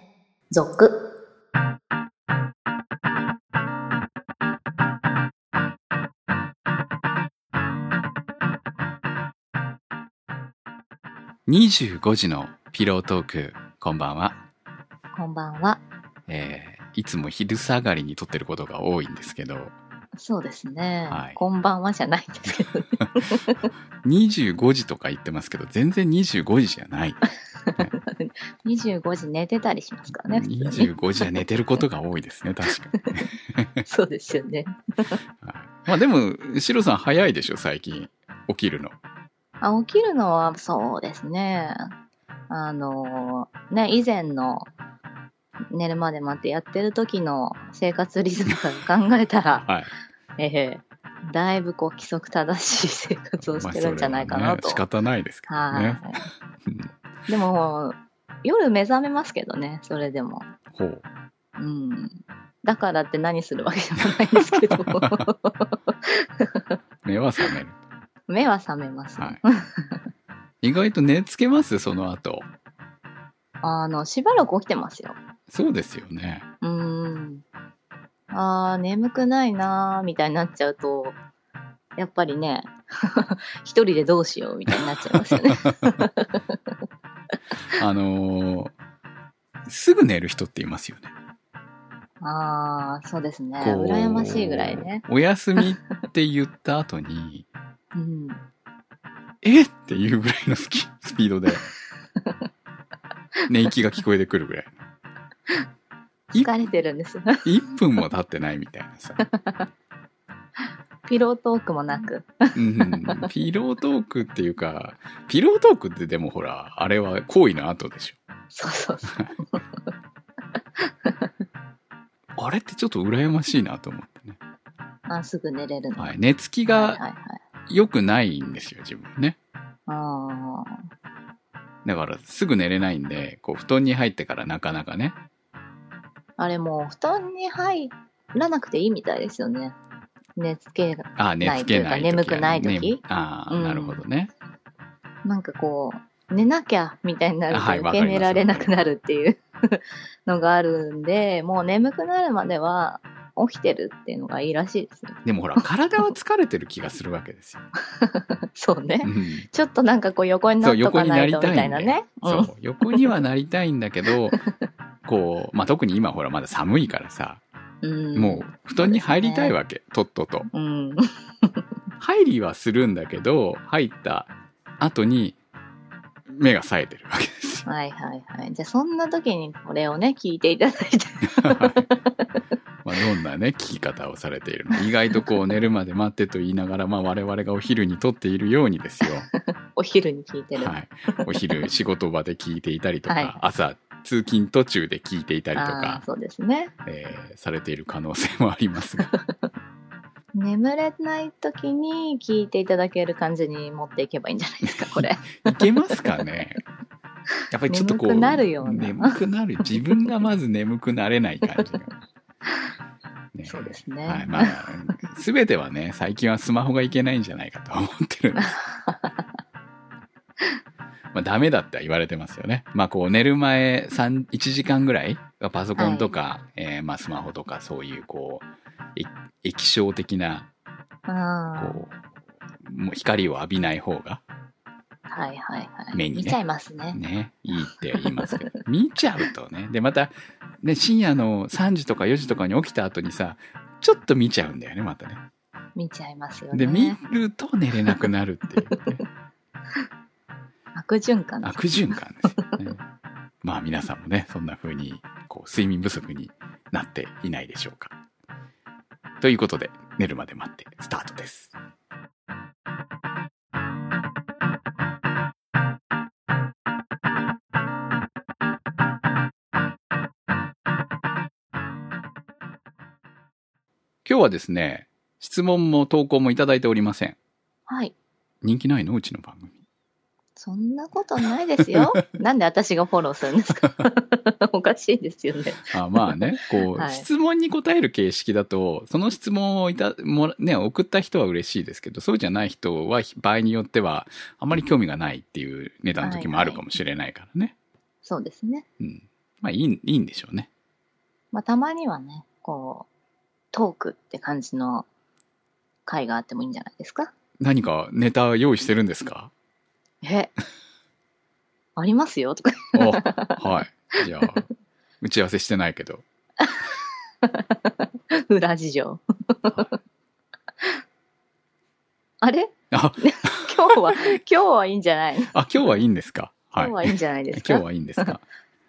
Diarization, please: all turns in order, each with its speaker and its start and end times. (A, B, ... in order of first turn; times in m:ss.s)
0:00.5-0:01.0 A
0:11.5-0:14.4 B
0:15.1-0:15.8 A
0:16.3-0:19.7 B
0:20.2-0:23.7 A
0:21.1-0:21.4 B
0:24.0-0:27.2 B
0:27.7-0:31.4 A
0:30.3-0:33.9 B
0:33.9-0:35.2 A
0:35.4-0:39.0 B
0:39.6-0:41.9 A
0:42.5-0:44.7 A
0:45.7-0:49.7 A
0:49.6-0:49.9 B
0:50.4-0:54.8 A
0:53.4-0:56.0 B
0:55.5-0:56.2 A
0:57.3-1:00.5 A
1:00.7-1:01.0 B
1:01.6-1:06.8 A
1:04.4-1:05.2 B
1:07.0-1:07.8 B
1:08.3-1:10.0 A
1:10.6-1:12.5 B
1:13.6-1:15.2 A
1:15.5-1:16.4 B
1:16.6-1:17.4 A
1:18.3-1:21.2 A
1:22.0-1:26.6 A
1:25.1-1:25.7 B
1:27.8-1:28.8 B
1:29.7-1:31.1 B
1:32.2-1:35.0 A
1:33.6-1:37.5 B
1:38.0-1:38.4 A
1:39.4-1:41.7 B
1:43.5-1:44.8 B
1:46.3-1:47.4 A
1:47.4-1:49.3 B
1:49.2-1:49.7 A
1:51.0-1:53.3 A
1:52.6-1:58.2 B
1:58.5-1:59.6 A
2:01.0-2:01.3 A
2:02.4-2:04.4 B
2:05.1-2:07.4 A
2:06.0-2:07.0 B
2:07.7-2:09.4 B
2:09.9-2:10.8 A
2:11.8-2:15.2 B
2:16.4-2:19.7 A
2:20.4-2:24.0 A
2:21.2-2:24.3 B
2:25.2-2:36.1 A
2:27.5-2:28.7 B
2:35.2-2:37.6 B
2:37.9-2:43.2 A
2:39.0-2:39.5 B
2:40.6-2:44.4 B
2:44.3-2:44.6 A
2:45.0-2:47.4 B
2:47.8-2:49.6 A
2:48.1-2:50.5 B
2:50.5-2:51.6 A
2:52.0-2:55.4 B
2:56.3-2:57.6 B
2:57.6-3:02.3 A
3:01.2-3:01.8 B
3:02.8-3:09.3 B
3:09.0-3:11.5 A
3:10.6-3:16.0 B
3:13.1-3:13.4 A
3:15.5-3:16.7 A
3:16.8-3:19.1 B
3:19.0-3:19.3 A
3:20.3-3:26.2 A
3:24.6-3:26.6 B
3:27.5-3:31.9 B
3:27.7-3:29.9 A
3:33.3-3:38.6 B
3:33.5-3:34.6 A
3:38.4-3:39.2 A
3:41.1-3:50.5 B
3:45.8-3:46.1 A
3:51.1-3:51.8 A
3:51.6-3:51.9 B
3:52.6-3:54.2 B
3:55.1-3:57.0 A
3:55.9-3:56.4 B
3:56.9-4:05.2 B
3:57.5-3:58.5 A
4:05.8-4:07.0 A
4:06.5-4:09.0 B
4:08.6-4:08.9 A
4:10.7-4:11.7 A
4:11.4-4:12.8 B
4:13.4-4:17.9 B
4:19.2-4:21.5 B
4:34.0-4:37.2 B
4:37.7-4:37.9 A
4:38.4-4:39.6 B
4:40.4-4:46.2 A
4:45.7-4:57.5 B
4:46.7-4:47.1 A
4:56.0-4:56.6 A
4:58.0-4:58.6 A
4:58.8-5:00.5 B
5:01.3-5:02.9 A
5:03.5-5:04.9 A
5:05.8-5:07.1 A
5:07.4-5:09.3 B
5:10.0-5:10.3 A
5:11.8-5:13.4 A
5:12.7-5:14.4 B
5:15.0-5:16.0 B
5:16.4-5:19.7 A
5:22.2-5:25.8 A
5:22.7-5:24.1 B
5:25.3-5:28.2 B
5:26.6-5:28.2 A